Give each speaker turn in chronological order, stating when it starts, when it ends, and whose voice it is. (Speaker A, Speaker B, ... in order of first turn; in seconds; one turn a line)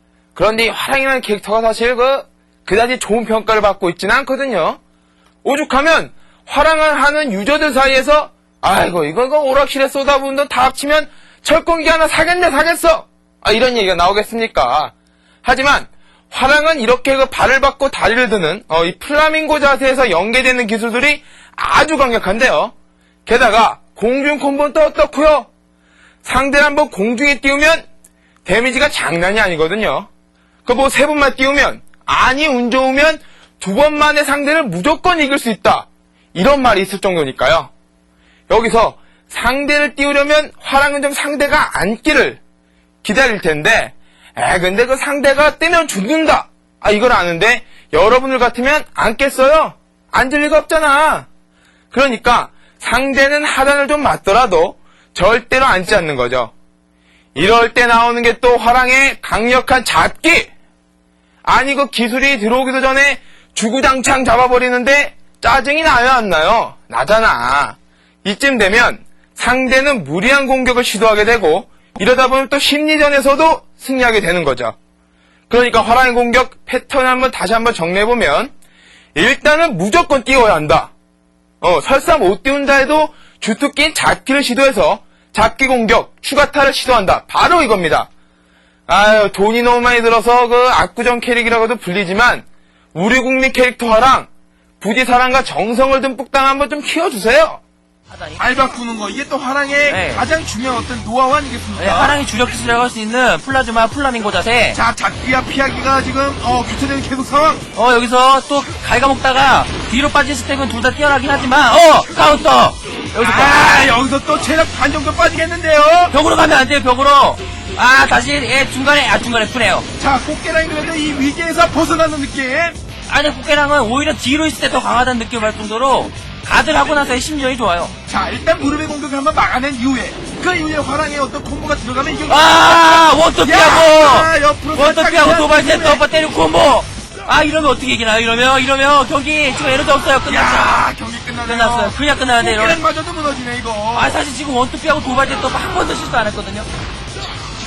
Speaker A: 0.3-4.8
Speaker A: 5.4-14.9
Speaker A: 15.4-22.7
Speaker A: 23.2-25.5
Speaker A: 26.2-27.9
Speaker A: 28.4-30.1
Speaker A: 30.6-37.7
Speaker A: 38.5-42.4
Speaker A: 43.0-51.3
Speaker A: 51.9-56.5
Speaker A: 57.3-60.5
Speaker A: 61.4-74.7
Speaker A: 75.5-78.5
Speaker A: 79.1-80.9
Speaker A: 81.6-88.1
Speaker A: 88.9-94.3
Speaker A: 94.8-97.6
Speaker B: 98.1-98.4
Speaker C: 98.4-102.2
Speaker B: 99.9-100.2
Speaker B: 101.8-104.8
Speaker C: 104.7-107.6
Speaker B: 107.7-113.9
Speaker C: 113.2-116.1
Speaker B: 116.1-119.9
Speaker C: 120.0-122.8
Speaker B: 123.1-127.9
Speaker C: 128.1-132.8
Speaker B: 132.3-140.8
Speaker C: 133.4-136.0
Speaker C: 140.3-144.1
Speaker B: 141.5-142.8
Speaker B: 143.9-146.7